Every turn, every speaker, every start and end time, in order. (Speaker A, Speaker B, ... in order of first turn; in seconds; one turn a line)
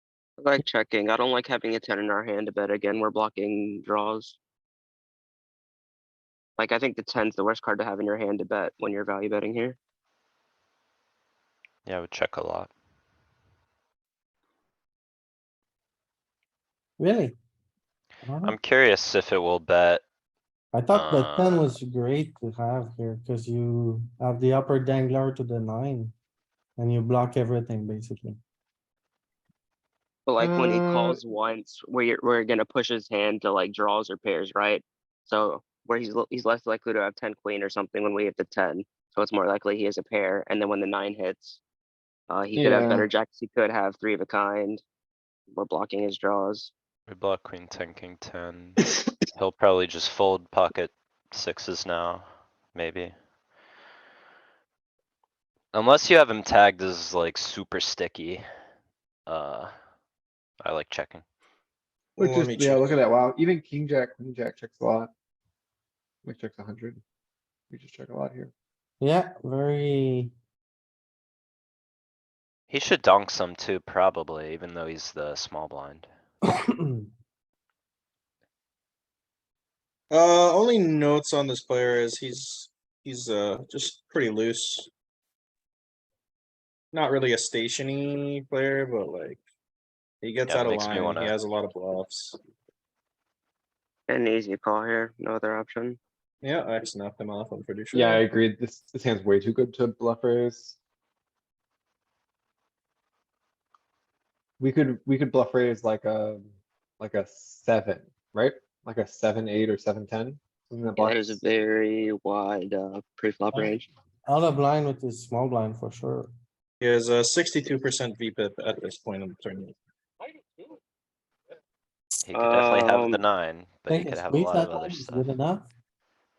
Speaker A: 0.4-4.4
Speaker A: 6.6-9.8
Speaker B: 11.9-12.7
Speaker C: 17.0-17.4
Speaker C: 18.2-18.6
Speaker B: 18.4-20.0
Speaker C: 20.7-26.1
Speaker B: 20.9-21.7
Speaker C: 26.8-28.4
Speaker A: 30.3-41.6
Speaker D: 30.4-31.2
Speaker A: 42.3-44.8
Speaker D: 42.5-43.1
Speaker A: 45.5-46.7
Speaker B: 47.1-48.8
Speaker B: 49.4-53.1
Speaker B: 55.7-58.5
Speaker B: 59.3-59.7
Speaker B: 60.6-61.2
Speaker E: 62.2-63.0
Speaker D: 62.2-65.1
Speaker D: 66.2-67.0
Speaker D: 67.7-68.5
Speaker C: 69.0-70.3
Speaker B: 72.7-76.1
Speaker C: 76.7-77.1
Speaker E: 80.1-84.9
Speaker E: 86.9-89.4
Speaker E: 90.2-92.4
Speaker B: 90.5-91.3
Speaker A: 94.1-96.0
Speaker E: 96.4-98.2
Speaker D: 97.9-100.8
Speaker D: 104.6-111.4
Speaker A: 111.0-113.8
Speaker C: 114.3-116.3
Speaker E: 116.8-119.8
Speaker B: 122.2-125.3
Speaker A: 122.3-123.2
Speaker C: 123.9-125.7